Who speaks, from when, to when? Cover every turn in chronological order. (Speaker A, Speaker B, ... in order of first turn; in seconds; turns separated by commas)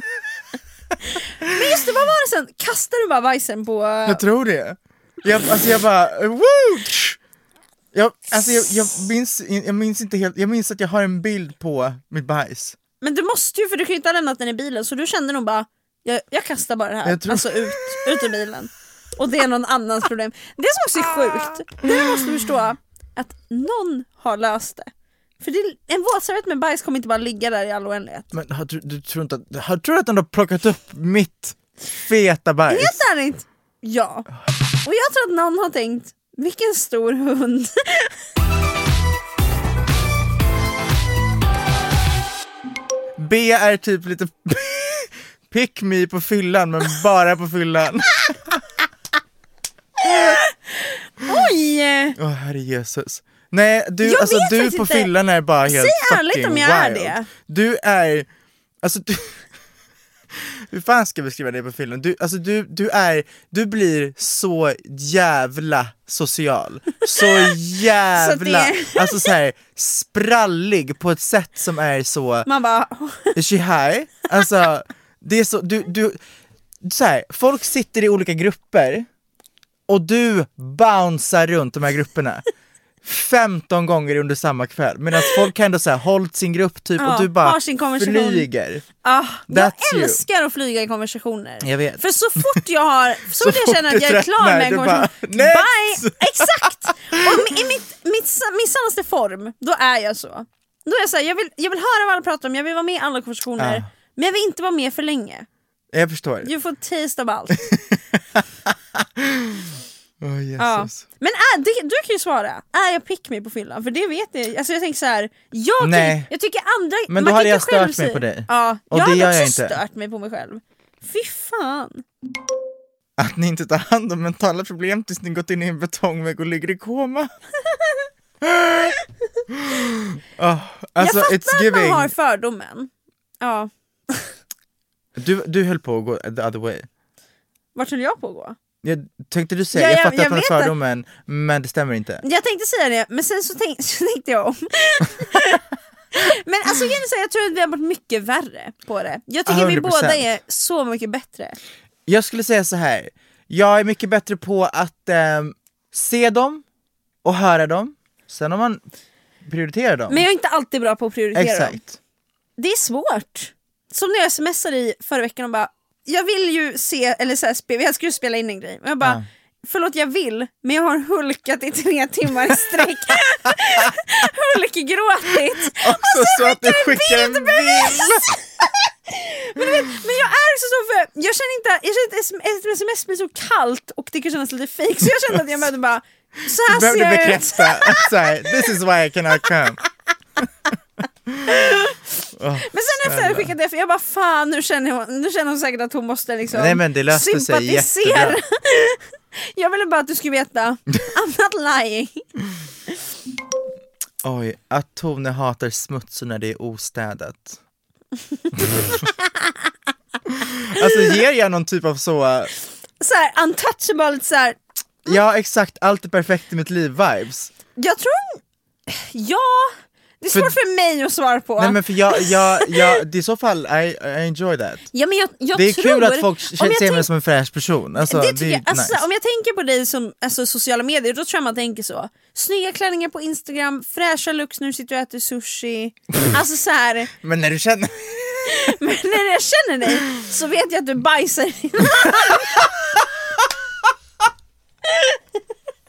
Speaker A: 1.0-4.2, Speaker B: 4.0-7.2, Speaker B: 7.9-12.8, Speaker A: 13.0-24.9, Speaker B: 17.0-17.9, Speaker A: 25.4-28.3, Speaker B: 28.3-33.0, Speaker A: 32.7-34.3, Speaker A: 34.8-38.1, Speaker B: 43.2-48.6, Speaker B: 50.0-50.4, Speaker A: 50.0-52.2, Speaker B: 52.1-58.3, Speaker A: 54.0-55.1, Speaker A: 55.6-57.3, Speaker B: 58.8-59.5, Speaker B: 60.3-72.5, Speaker A: 68.2-69.3, Speaker A: 72.5-73.3, Speaker B: 73.3-76.2, Speaker B: 76.8-79.1, Speaker B: 79.9-82.4, Speaker B: 83.0-88.8, Speaker A: 87.0-88.5, Speaker A: 89.0-105.5, Speaker B: 89.5-90.2, Speaker B: 91.6-92.6, Speaker B: 93.3-97.6, Speaker B: 103.6-103.8, Speaker B: 105.9-106.5, Speaker A: 106.4-107.8, Speaker B: 107.6-108.4, Speaker B: 109.0-111.0, Speaker A: 110.6-122.0, Speaker B: 115.8-116.3, Speaker B: 117.1-119.8, Speaker B: 123.2-127.3, Speaker B: 128.4-129.0, Speaker B: 129.5-132.1, Speaker A: 131.0-132.9, Speaker A: 133.4-134.3, Speaker B: 135.2-136.9, Speaker A: 137.7-138.6, Speaker B: 138.8-142.2, Speaker A: 139.7-140.7, Speaker A: 142.2-151.6, Speaker B: 149.4-150.2, Speaker B: 152.1-156.6, Speaker B: 157.2-158.8, Speaker B: 159.4-160.2, Speaker A: 160.1-161.8, Speaker B: 161.3-162.0, Speaker A: 162.6-188.3, Speaker B: 175.8-178.3, Speaker B: 185.0-185.4, Speaker B: 186.6-189.8, Speaker B: 191.3-191.6, Speaker A: 191.5-192.0, Speaker B: 192.4-193.5, Speaker A: 192.6-202.2, Speaker B: 196.5-198.4, Speaker B: 204.2-207.6, Speaker B: 208.6-209.0, Speaker B: 210.3-212.5, Speaker A: 213.0-215.1, Speaker B: 215.0-217.5, Speaker A: 217.8-222.9, Speaker B: 221.6-224.9, Speaker A: 224.9-227.1, Speaker B: 225.5-229.0, Speaker A: 228.0-237.1, Speaker B: 237.2-238.6, Speaker A: 238.5-242.7, Speaker B: 242.3-242.6, Speaker A: 244.9-245.2